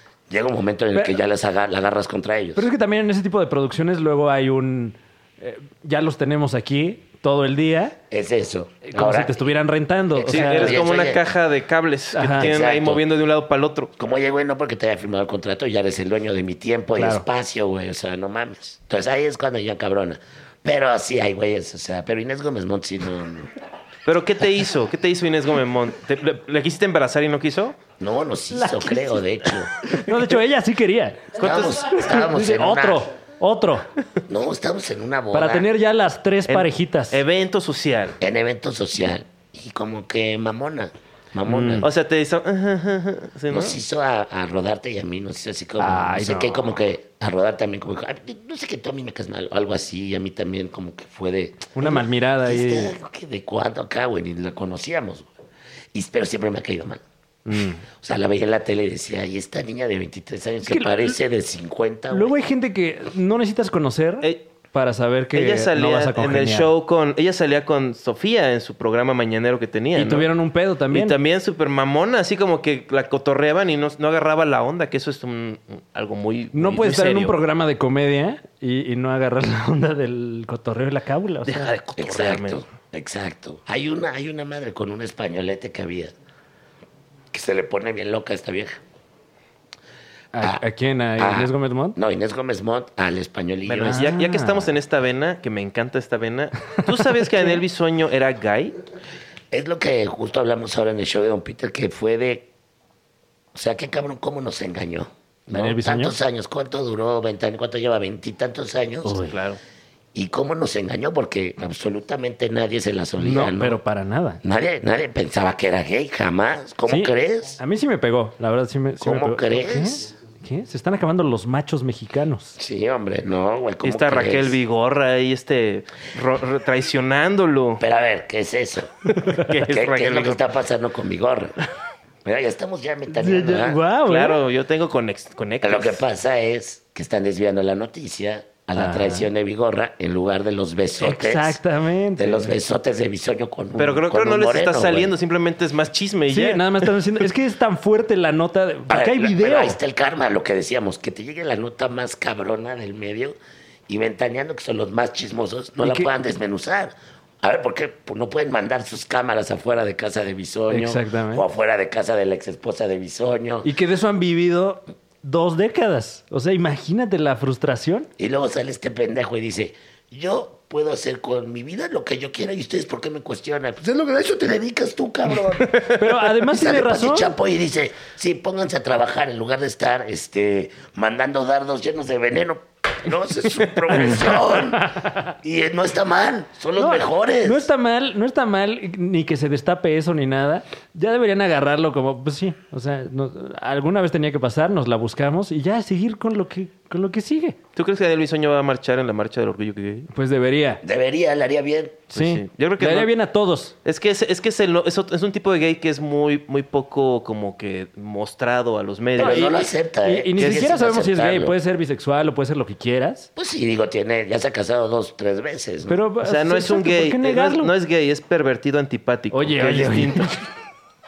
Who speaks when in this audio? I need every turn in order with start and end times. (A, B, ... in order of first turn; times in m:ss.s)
0:00.3-0:02.7 A
0:02.6-0:08.0 B
0:08.1-0:09.5 A
0:08.8-0:10.8 B
0:10.1-0:11.2 A
0:10.3-0:13.9 C
0:12.1-0:12.5 B
0:12.4-0:13.0 A
0:14.0-0:23.5 A
0:17.0-0:17.2 B
0:24.0-0:27.8 C
0:28.0-0:29.7 A
0:28.5-0:33.9 B
0:31.4-0:33.1 A
0:31.4-0:31.9 C
0:34.3-0:35.7 A
0:35.3-0:37.2 B
0:36.5-0:38.2 C
0:38.2-0:41.9 A
0:41.4-0:41.9 B
0:41.8-0:43.8 C
0:43.5-0:55.3 A
0:45.8-0:46.6 B
0:51.7-0:52.9 B
0:55.9-0:57.0 A
0:57.4-0:57.8 B
0:58.0-1:02.4 A
1:00.6-1:01.1 B
1:02.1-1:06.7 B
1:05.3-1:10.3 C
1:09.9-1:11.2 B
1:10.9-1:17.4 C
1:16.5-1:21.6 B
1:21.4-1:22.6 C
1:22.0-1:26.1 A
1:27.3-1:28.8 A
1:30.3-1:32.0 B
1:31.2-1:34.1 A
1:33.6-1:38.8 C
1:33.9-1:34.7 B
1:39.5-1:42.5 A
1:43.5-1:49.2 A
1:45.5-1:46.1 B
1:49.0-1:49.4 B
1:49.3-1:49.6 C
1:50.1-1:53.8 A
1:53.2-1:54.4 B
1:54.4-1:57.6 A
1:56.9-2:02.6 B
1:59.0-2:00.1 A
2:02.6-2:04.6 A
2:03.8-2:07.8 C
2:07.8-2:08.9 A
2:09.1-2:10.4 C
2:09.6-2:11.5 A
2:12.2-2:13.8 A
2:13.1-2:14.4 B
2:14.0-2:16.0 C
2:15.6-2:21.6 A
2:18.8-2:19.2 B
2:21.0-2:22.5 B
2:22.2-2:25.1 A
2:23.8-2:27.0 C
2:26.3-2:29.8 B
2:28.9-2:33.4 A
2:33.9-2:43.7 A
2:35.8-2:36.1 B
2:40.7-2:41.4 B
2:43.6-2:48.1 B
2:48.2-2:55.8 A
2:55.9-2:57.3 B
2:56.4-3:07.7 A
3:06.8-3:17.6 B
3:17.7-3:20.1 C
3:20.1-3:20.8 B
3:20.8-3:22.0 A
3:22.1-3:23.7 B
3:22.1-3:23.1 C
3:23.8-3:29.5 C
3:29.2-3:31.6 A
3:29.2-3:33.3 B
3:33.4-3:36.0 A
3:35.9-3:37.7 B
3:36.2-3:40.4 C
3:39.3-3:40.4 B